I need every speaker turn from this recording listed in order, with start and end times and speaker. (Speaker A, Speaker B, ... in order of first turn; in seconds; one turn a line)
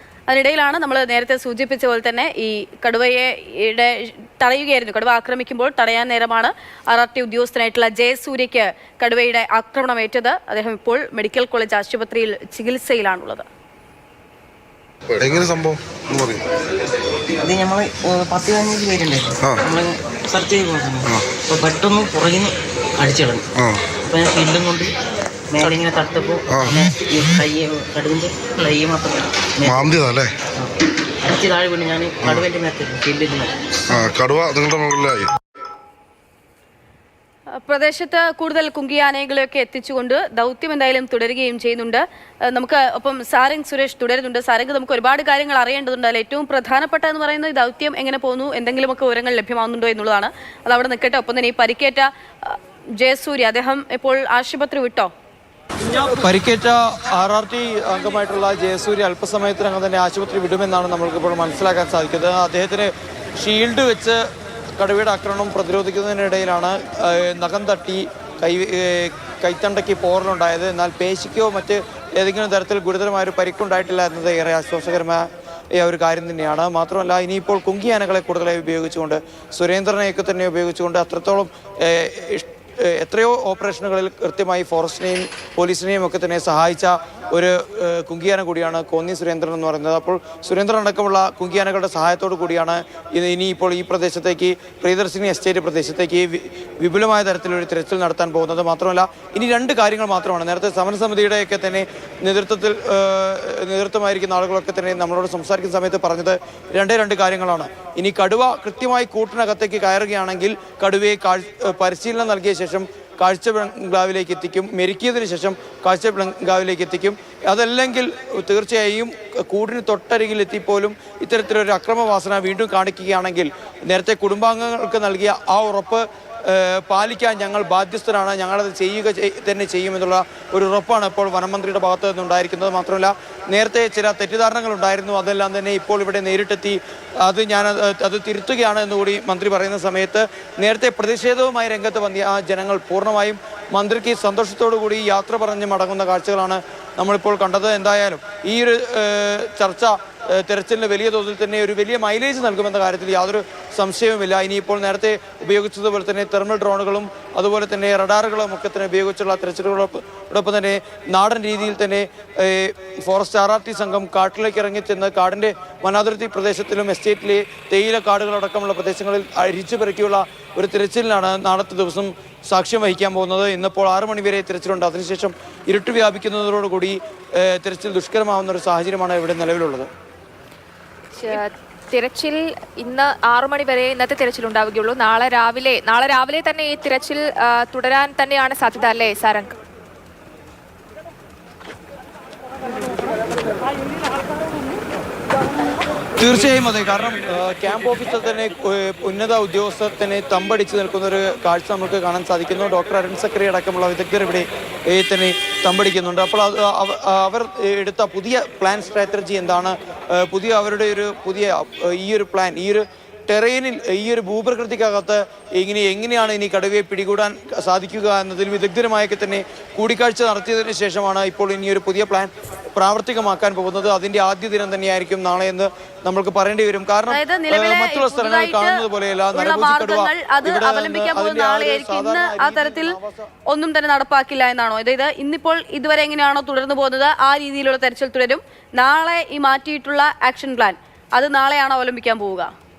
Speaker A: 0.3-13.4
Speaker B: 15.1-16.4
Speaker C: 17.4-23.5
Speaker B: 23.6-23.8
Speaker C: 24.0-24.9
Speaker C: 25.5-29.9
Speaker B: 26.5-26.9
Speaker B: 29.6-30.3
Speaker C: 30.6-33.5
Speaker B: 33.9-35.3
Speaker A: 37.6-55.1
Speaker D: 56.0-64.2
Speaker D: 64.8-179.9
Speaker E: 181.1-189.5
Speaker D: 196.2-233.3
Speaker A: 227.1-232.9
Speaker A: 233.5-242.5